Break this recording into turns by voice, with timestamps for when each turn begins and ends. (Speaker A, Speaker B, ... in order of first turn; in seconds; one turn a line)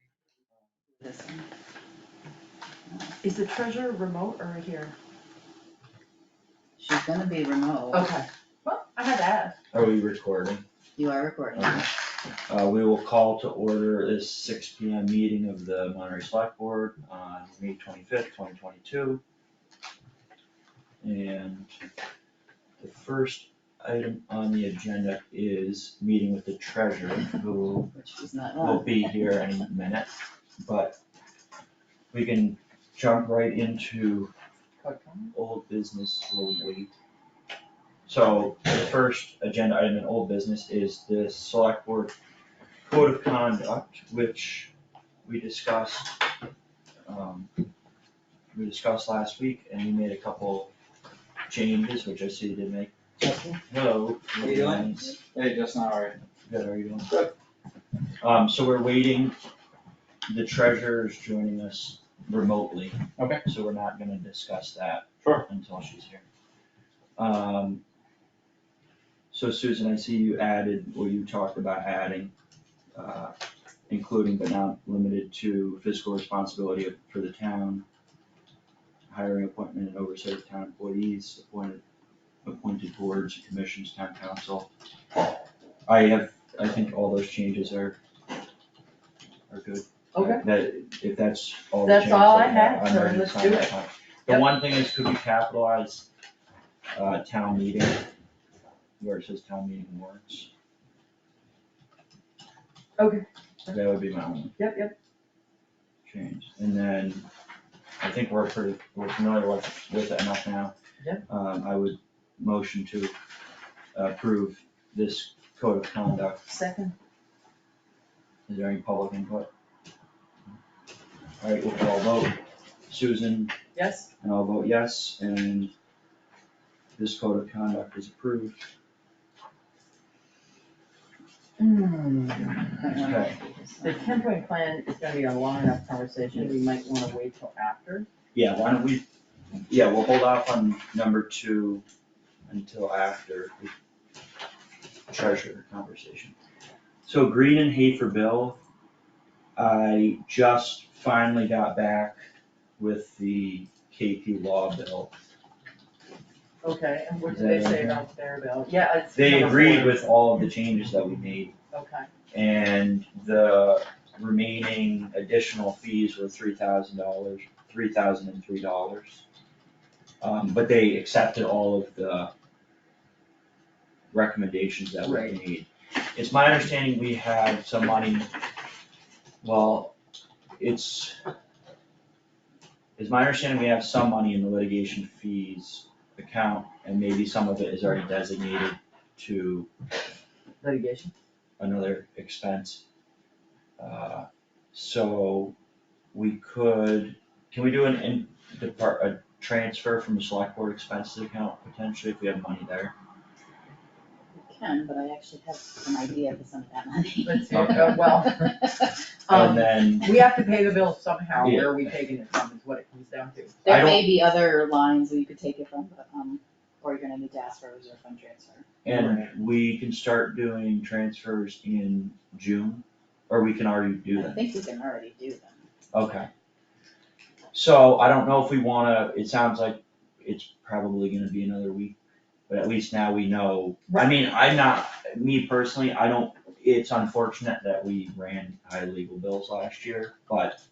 Speaker A: 1.0-1.5
Speaker A: 2.9-3.1
Speaker B: 3.2-4.9
Speaker A: 6.8-8.1
Speaker B: 7.9-9.6
Speaker C: 9.7-10.6
Speaker A: 11.0-11.9
Speaker C: 11.6-11.9
Speaker C: 12.5-19.2
Speaker C: 21.0-21.7
Speaker C: 22.8-27.9
Speaker A: 27.9-29.2
Speaker C: 28.6-31.0
Speaker C: 32.1-34.3
Speaker B: 34.8-35.3
Speaker C: 35.3-36.9
Speaker C: 38.1-42.1
Speaker C: 42.9-44.7
Speaker C: 45.3-46.2
Speaker C: 47.1-47.5
Speaker C: 48.5-50.7
Speaker C: 51.5-53.1
Speaker D: 53.2-53.6
Speaker C: 53.7-55.2
Speaker D: 54.4-56.2
Speaker C: 56.5-57.1
Speaker C: 58.2-59.4
Speaker C: 60.3-66.2
Speaker C: 67.2-67.8
Speaker C: 69.3-72.3
Speaker C: 73.0-73.3
Speaker C: 73.9-77.8
Speaker C: 79.1-81.8
Speaker C: 82.5-84.7
Speaker C: 85.9-88.0
Speaker C: 89.5-96.1
Speaker B: 90.1-90.4
Speaker B: 91.8-93.8
Speaker C: 96.9-98.1
Speaker C: 99.0-100.5
Speaker B: 103.0-103.7
Speaker C: 103.7-104.5
Speaker B: 104.6-104.9
Speaker C: 106.0-107.3
Speaker C: 108.0-110.7
Speaker C: 111.3-113.2
Speaker C: 113.9-116.4
Speaker B: 116.4-117.0
Speaker C: 118.5-119.5
Speaker C: 121.4-122.4
Speaker C: 122.9-123.5
Speaker B: 123.8-124.1
Speaker C: 124.2-125.7
Speaker C: 127.0-128.6
Speaker B: 131.6-132.2
Speaker A: 132.7-134.3
Speaker C: 133.0-133.3
Speaker B: 133.8-138.1
Speaker C: 138.3-139.1
Speaker C: 139.7-141.8
Speaker C: 142.5-143.7
Speaker C: 145.1-146.3
Speaker C: 147.1-148.6
Speaker C: 149.6-152.2
Speaker C: 152.8-155.1
Speaker B: 156.6-160.1
Speaker C: 157.3-158.1
Speaker C: 159.1-161.5
Speaker B: 161.7-162.1
Speaker C: 162.3-169.2
Speaker C: 170.2-172.3
Speaker C: 174.1-178.3
Speaker B: 175.0-175.4
Speaker C: 179.4-179.9
Speaker C: 180.6-181.2
Speaker C: 183.0-189.7
Speaker B: 190.6-191.1
Speaker C: 191.6-192.8
Speaker C: 193.8-195.6
Speaker C: 196.1-202.9
Speaker A: 204.3-208.5
Speaker B: 207.2-208.7
Speaker C: 207.5-208.0
Speaker B: 209.3-213.6
Speaker C: 209.3-210.2
Speaker C: 211.4-211.9
Speaker A: 213.6-218.7
Speaker C: 213.7-214.2
Speaker C: 218.8-224.5
Speaker B: 218.9-219.3
Speaker A: 224.1-225.7
Speaker C: 225.9-226.3
Speaker C: 227.5-232.0
Speaker C: 232.5-240.6